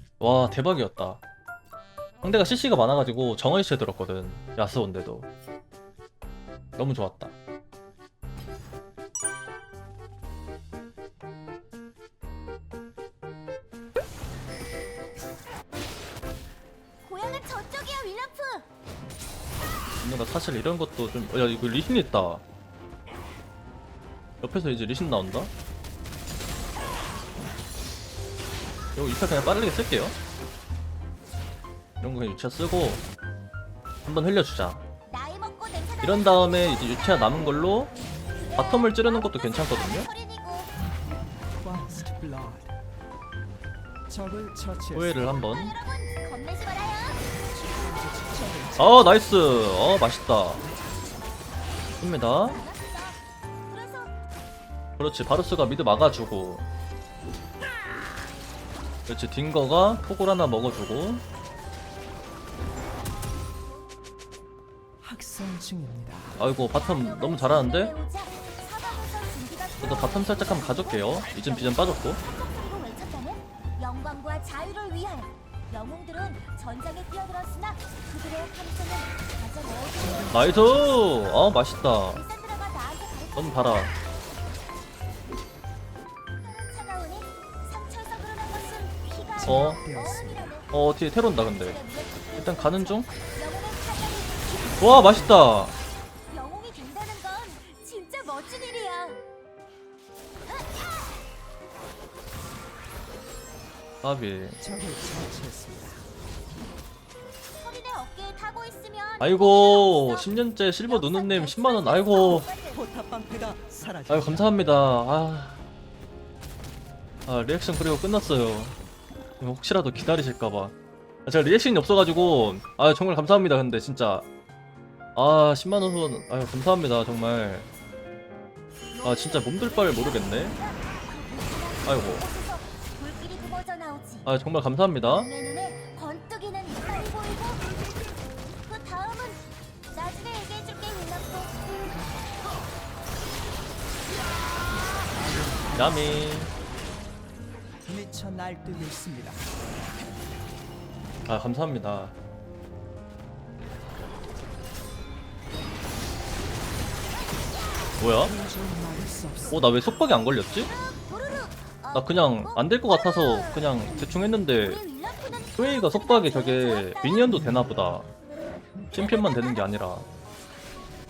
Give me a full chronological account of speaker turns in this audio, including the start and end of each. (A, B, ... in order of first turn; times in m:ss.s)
0:00.2-0:01.2 A
0:02.2-0:05.3 A
0:06.8-0:07.3 A
0:17.0-0:18.7 B
0:20.0-0:22.4 A
0:24.4-0:25.5 A
0:28.9-0:30.2 A
0:32.0-0:33.0 A
0:34.0-0:34.8 A
0:35.1-0:37.6 B
0:36.0-0:37.9 A
0:38.2-0:40.7 B
0:38.6-0:40.1 A
0:41.6-0:42.7 C
0:44.1-0:45.2 C
0:44.9-0:45.7 A
0:45.3-0:47.2 B
0:47.5-0:48.9 C
0:48.8-0:50.6 A
0:52.0-0:52.6 A
0:52.3-0:54.1 B
0:55.0-0:56.6 A
0:59.1-1:01.2 A
1:05.0-1:06.3 C
1:06.4-1:07.9 A
1:06.7-1:21.2 B
1:09.8-1:12.2 A
1:20.3-1:22.2 A
1:22.1-1:23.9 B
1:23.4-1:23.9 A
1:26.4-1:30.7 B
1:29.4-1:29.8 A
1:29.4-1:30.4 C
1:30.7-1:31.8 A
1:31.6-1:35.2 B
1:32.4-1:33.1 A
1:34.8-1:35.8 A
1:36.3-1:39.2 B
1:40.5-1:40.9 B
1:44.0-1:44.6 A
1:44.6-1:46.0 C
1:47.6-1:52.8 B
1:49.2-1:52.5 A
1:52.7-1:54.4 C
1:54.1-1:55.6 A
1:57.2-1:58.8 A
1:59.4-2:00.7 A
2:01.2-2:04.2 A
2:05.2-2:07.7 A
2:08.9-2:14.3 B
2:09.0-2:10.5 A
2:11.8-2:12.2 A
2:14.2-2:15.3 A
2:15.1-2:17.6 B
2:18.5-2:21.5 B
2:25.2-2:26.0 C
2:25.7-2:26.5 A
2:27.9-2:29.5 C
2:31.2-2:32.1 A
2:37.3-2:38.0 B
2:38.0-2:38.3 A
2:38.3-2:39.6 C
2:39.5-2:40.7 A
2:40.6-2:43.9 B
2:41.9-2:44.8 A
2:44.6-2:47.3 B
2:45.6-2:48.1 A
2:48.9-2:50.1 A
2:48.9-2:49.6 B